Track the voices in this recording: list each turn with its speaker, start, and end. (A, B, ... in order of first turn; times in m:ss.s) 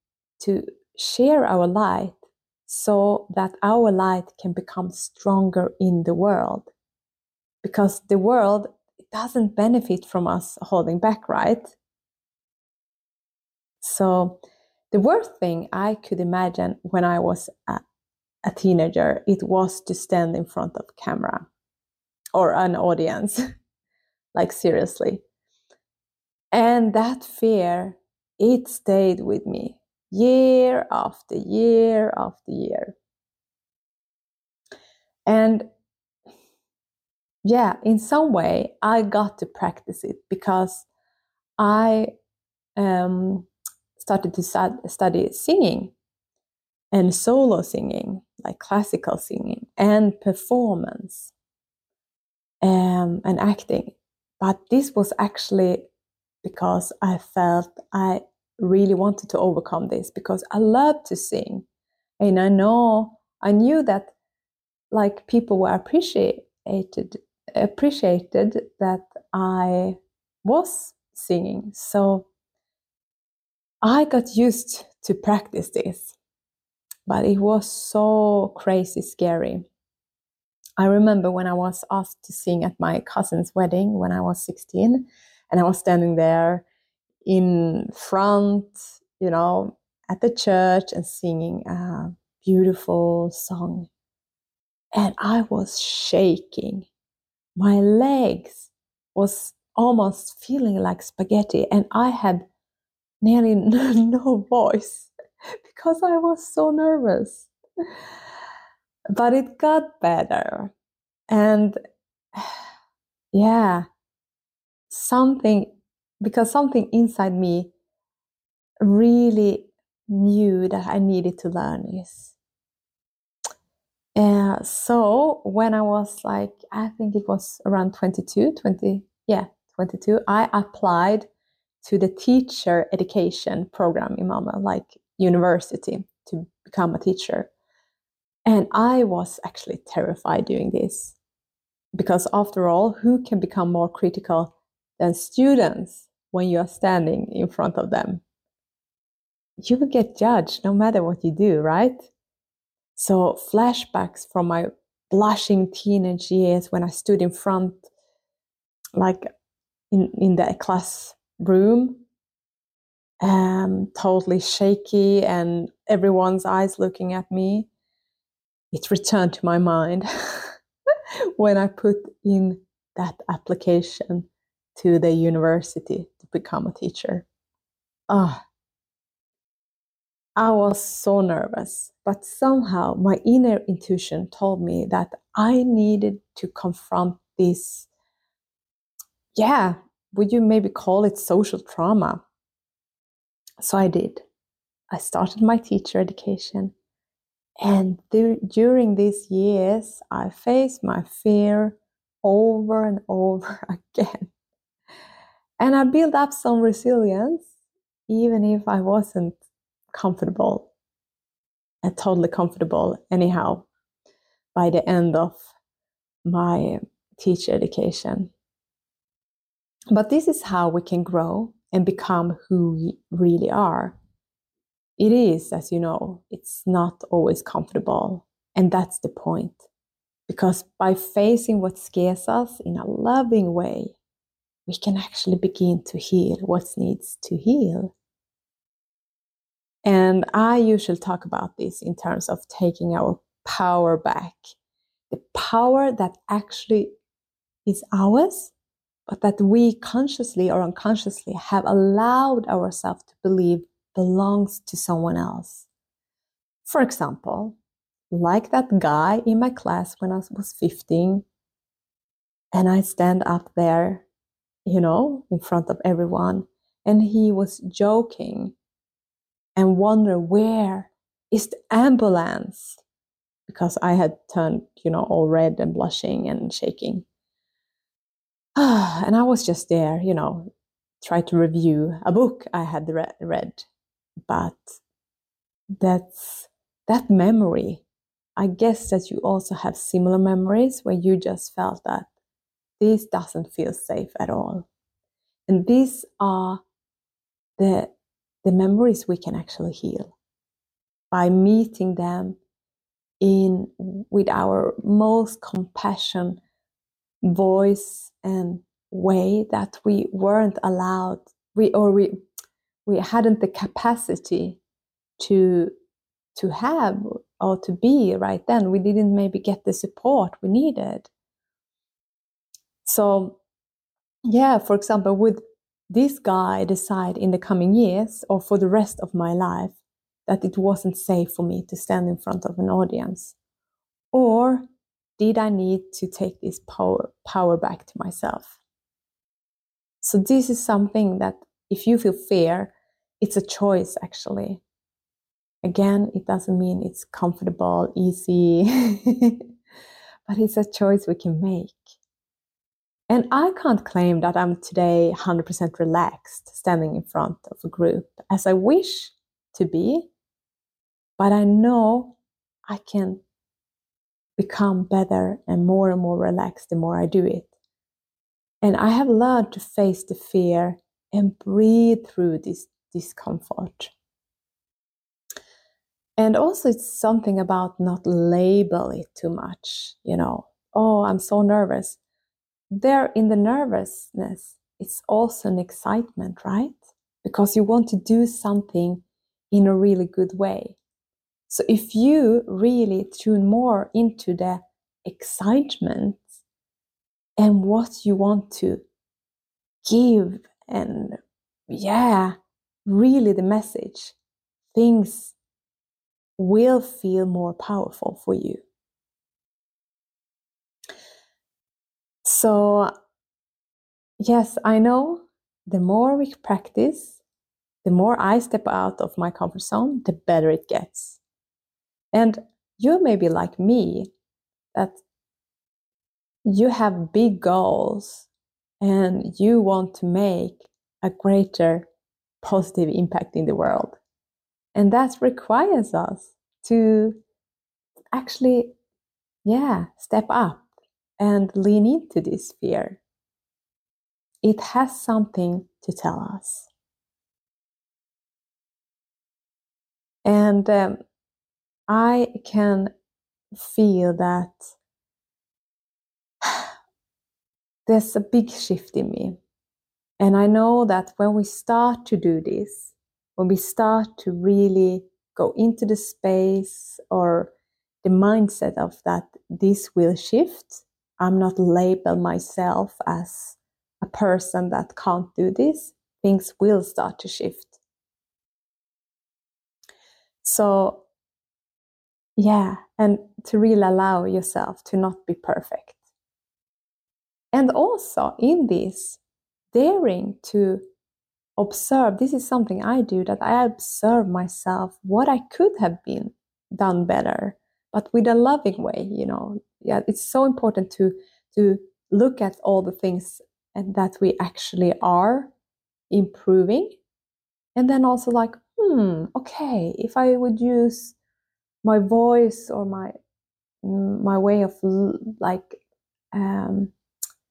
0:00.4-0:06.7 A
0:07.6-0:11.8 A
0:13.8-0:14.4 A
0:14.9-0:17.8 A
0:18.4-0:21.5 A
0:22.4-0:23.4 A
0:24.3-0:25.2 A
0:26.5-0:33.0 A
0:35.3-0:35.7 A
0:37.4-0:40.9 A
0:41.6-0:42.1 A
0:42.8-0:45.9 A
0:46.9-0:51.3 A
0:52.6-0:55.9 A
0:56.4-1:01.7 A
1:02.2-1:04.2 A
1:04.9-1:12.3 A
1:13.8-1:16.2 A
1:17.1-1:19.7 A
1:20.8-1:26.6 A
1:27.2-1:33.9 A
1:34.9-1:36.9 A
1:37.6-1:42.5 A
1:43.2-1:45.1 A
1:45.7-1:47.5 A
1:49.1-1:50.7 A
1:51.3-1:51.8 A
1:53.3-1:53.9 A
1:54.9-1:57.7 A
1:58.8-2:02.4 A
2:04.2-2:11.3 A
2:11.8-2:17.5 A
2:18.5-2:21.2 A
2:22.0-2:28.2 A
2:29.6-2:32.1 A
2:33.0-2:37.9 A
2:39.0-2:39.2 A
2:39.9-2:42.0 A
2:43.2-2:47.7 A
2:48.7-2:50.5 A
2:51.4-2:57.3 A
2:58.1-2:58.4 A
3:00.4-3:07.9 A
3:09.4-3:12.2 A
3:13.6-3:14.2 A
3:14.9-3:16.7 A
3:17.6-3:24.3 A
3:25.6-3:27.5 A
3:28.1-3:29.4 A
3:29.9-3:30.7 A
3:31.8-3:33.7 A
3:34.6-3:35.5 A
3:36.3-3:38.3 A
3:39.9-3:44.0 A
3:45.0-3:49.7 A
3:50.3-3:54.0 A
3:54.7-3:57.9 A
3:59.8-4:04.5 A
4:05.1-4:07.0 A
4:07.6-4:08.5 A
4:09.1-4:15.7 A
4:16.6-4:17.6 A
4:18.1-4:21.2 A
4:22.5-4:24.0 A
4:24.7-4:28.6 A
4:29.6-4:32.8 A
4:33.5-4:37.0 A
4:38.6-4:40.5 A
4:41.0-4:43.7 A
4:44.3-4:44.8 A
4:45.8-4:47.8 A
4:48.4-4:52.1 A
4:52.8-4:54.7 A
4:55.5-4:56.6 A
4:57.6-5:00.2 A
5:01.1-5:02.4 A
5:03.2-5:06.4 A
5:07.3-5:12.2 A
5:12.9-5:14.6 A
5:15.2-5:15.7 A
5:16.4-5:21.1 A
5:22.8-5:23.4 A
5:24.3-5:33.4 A
5:34.1-5:34.6 A
5:35.2-5:38.6 A
5:40.0-5:44.6 A
5:45.6-5:49.4 A
5:50.3-5:52.0 A
5:53.1-6:00.1 A
6:01.2-6:02.2 A
6:02.7-6:03.2 A
6:04.4-6:07.5 A
6:08.6-6:13.9 A
6:16.2-6:22.0 A
6:22.7-6:30.8 A
6:31.5-6:36.2 A
6:37.4-6:38.8 A
6:39.8-6:41.2 A
6:41.7-6:44.2 A
6:44.7-6:45.4 A
6:46.4-6:48.6 A
6:52.2-6:52.9 A
6:54.2-6:57.2 A
6:57.8-7:01.2 A
7:02.1-7:04.1 A
7:04.7-7:05.0 A
7:06.4-7:08.3 A
7:08.8-7:11.9 A
7:12.4-7:14.0 A
7:14.8-7:17.2 A
7:18.1-7:18.8 A
7:19.5-7:23.0 A
7:24.4-7:26.7 A
7:30.2-7:31.0 A
7:31.9-7:32.9 A
7:33.5-7:34.6 A
7:37.9-7:39.4 A
7:40.2-7:47.5 A
7:48.0-7:57.8 A
8:00.4-8:01.0 A
8:02.4-8:06.0 A
8:07.5-8:09.2 A
8:09.7-8:10.8 A
8:11.6-8:25.5 A
8:26.1-8:27.0 A
8:27.8-8:31.2 A
8:31.8-8:33.1 A
8:33.8-8:35.8 A
8:36.3-8:36.9 A